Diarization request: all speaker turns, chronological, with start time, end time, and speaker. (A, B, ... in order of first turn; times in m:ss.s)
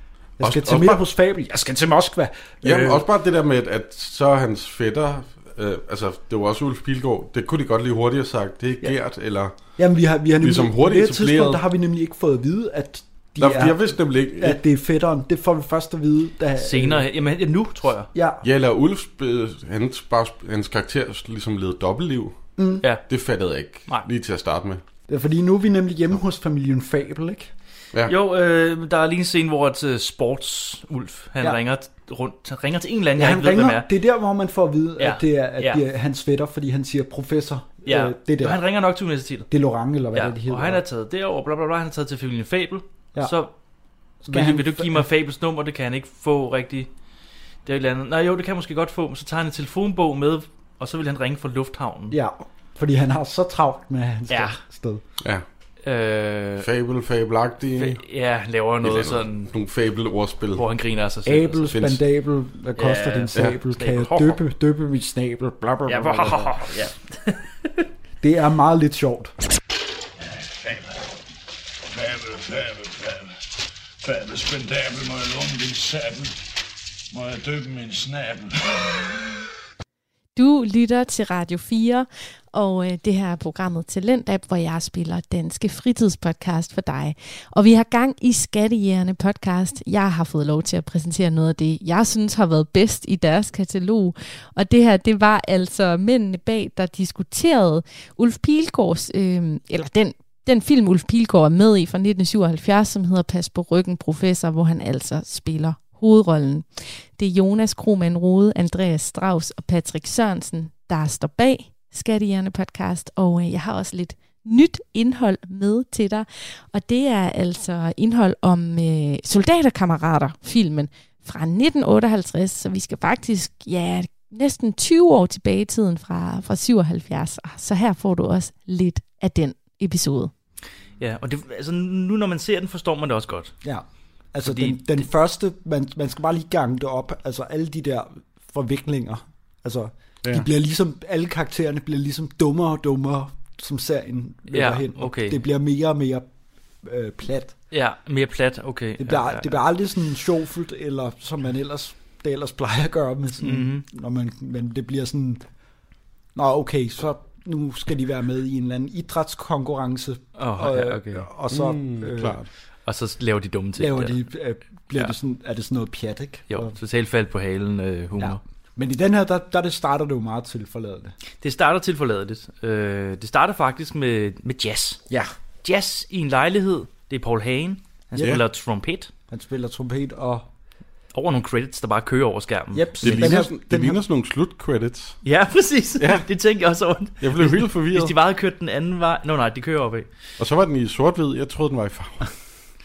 0:00.4-0:03.0 A
0:00.4-0:01.0 B
0:02.6-0:09.5 B
0:09.8-0:17.1 A
0:10.4-0:11.6 B
0:13.4-0:14.6 B
0:16.6-0:18.1 C
0:18.1-0:18.4 A
0:18.4-0:22.4 B
0:22.6-0:22.8 A
0:23.0-0:24.8 B
0:25.1-0:27.5 A
0:28.1-0:33.9 C
0:33.2-0:38.6 A
0:35.0-0:35.8 C
0:37.8-0:39.5 C
0:39.5-0:40.8 A
0:40.1-0:43.5 C
0:44.2-0:45.0 A
0:44.2-0:46.9 C
0:47.6-0:52.2 C
0:52.1-0:55.0 A
0:54.3-0:54.6 C
0:55.8-0:56.7 C
0:56.6-0:58.0 B
0:57.8-0:59.5 C
0:58.8-1:00.6 B
1:00.6-1:01.7 C
1:01.2-1:06.6 A
1:01.7-1:02.0 B
1:02.8-1:04.4 C
1:05.9-1:07.9 C
1:08.2-1:09.3 A
1:10.2-1:11.1 D
1:11.9-1:13.3 D
1:14.0-1:16.4 D
1:17.1-1:19.3 D
1:20.3-2:10.3 E
2:11.0-2:13.5 C
2:13.6-2:26.3 A
2:14.4-2:15.1 C
2:24.5-2:25.4 C
2:26.8-2:27.6 A
2:27.7-2:29.6 C
2:29.0-2:35.4 A
2:33.4-2:33.8 C
2:36.3-2:42.4 A
2:40.4-2:41.3 C
2:41.5-2:42.4 B
2:42.8-2:44.2 C
2:43.8-2:46.7 A
2:46.5-2:48.4 C
2:48.2-2:51.1 A
2:51.4-2:55.0 C
2:55.6-2:59.1 C
2:58.1-2:58.4 A
2:59.3-3:00.5 A
3:01.1-3:03.3 C
3:02.7-3:04.0 A
3:03.0-3:05.2 B
3:05.2-3:10.1 C
3:06.0-3:06.2 B
3:07.2-3:08.1 B
3:10.4-3:12.3 B